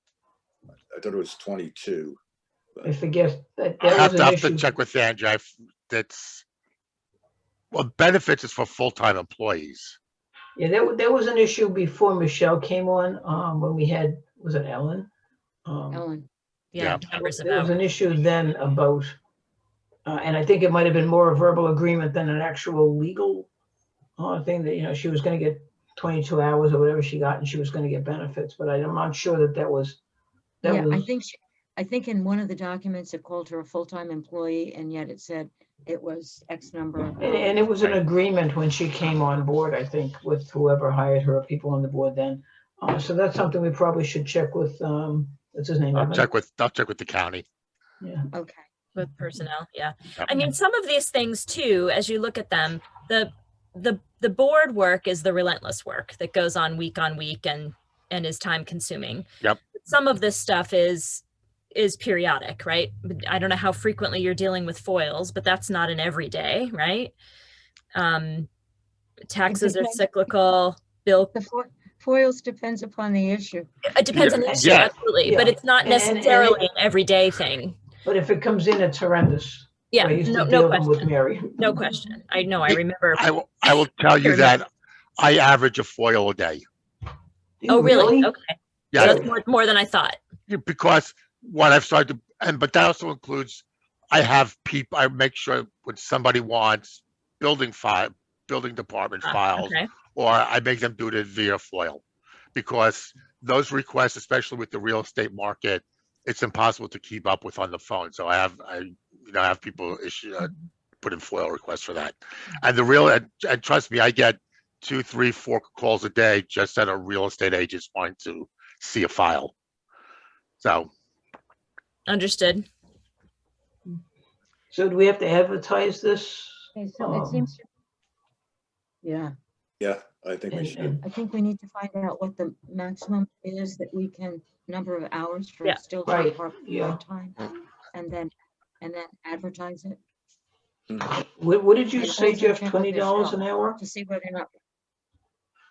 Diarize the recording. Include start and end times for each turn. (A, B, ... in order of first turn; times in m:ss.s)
0:00.9-0:02.2 A
0:02.8-0:04.6 B
0:03.8-0:06.4 C
0:07.7-0:10.0 C
0:10.6-0:15.1 B
0:15.6-0:16.0 B
0:15.9-0:16.3 D
0:16.7-0:17.7 E
0:16.8-0:17.0 C
0:17.0-0:19.1 B
0:20.0-0:23.5 B
0:24.2-0:30.0 B
0:30.6-0:31.0 B
0:30.6-0:37.7 D
0:37.2-0:46.3 B
0:45.9-0:47.4 C
0:48.0-0:48.3 B
0:48.3-0:48.6 D
0:49.0-1:07.1 E
1:07.9-1:08.5 E
1:09.3-1:11.3 E
1:09.5-1:10.2 D
1:11.2-1:13.7 D
1:13.8-1:17.8 E
1:14.1-1:16.6 B
1:14.1-1:14.9 C
1:18.0-1:21.8 B
1:19.9-1:23.2 E
1:22.7-1:24.7 C
1:24.2-1:24.5 E
1:25.2-1:26.6 C
1:27.6-1:28.3 B
1:27.7-1:30.2 E
1:28.9-1:29.2 C
1:29.0-1:29.3 B
1:30.5-1:42.0 C
1:39.2-1:39.9 E
1:42.5-1:59.5 C
2:00.6-2:00.9 C
2:02.1-2:02.6 E
2:04.7-2:07.4 B
2:06.8-2:07.6 D
2:09.0-2:09.3 D
2:09.8-2:11.0 A
2:10.5-2:11.0 B
2:11.0-2:17.4 D
2:16.0-2:17.0 B
2:17.9-2:20.0 D
2:21.0-2:23.8 B
2:22.0-2:24.5 D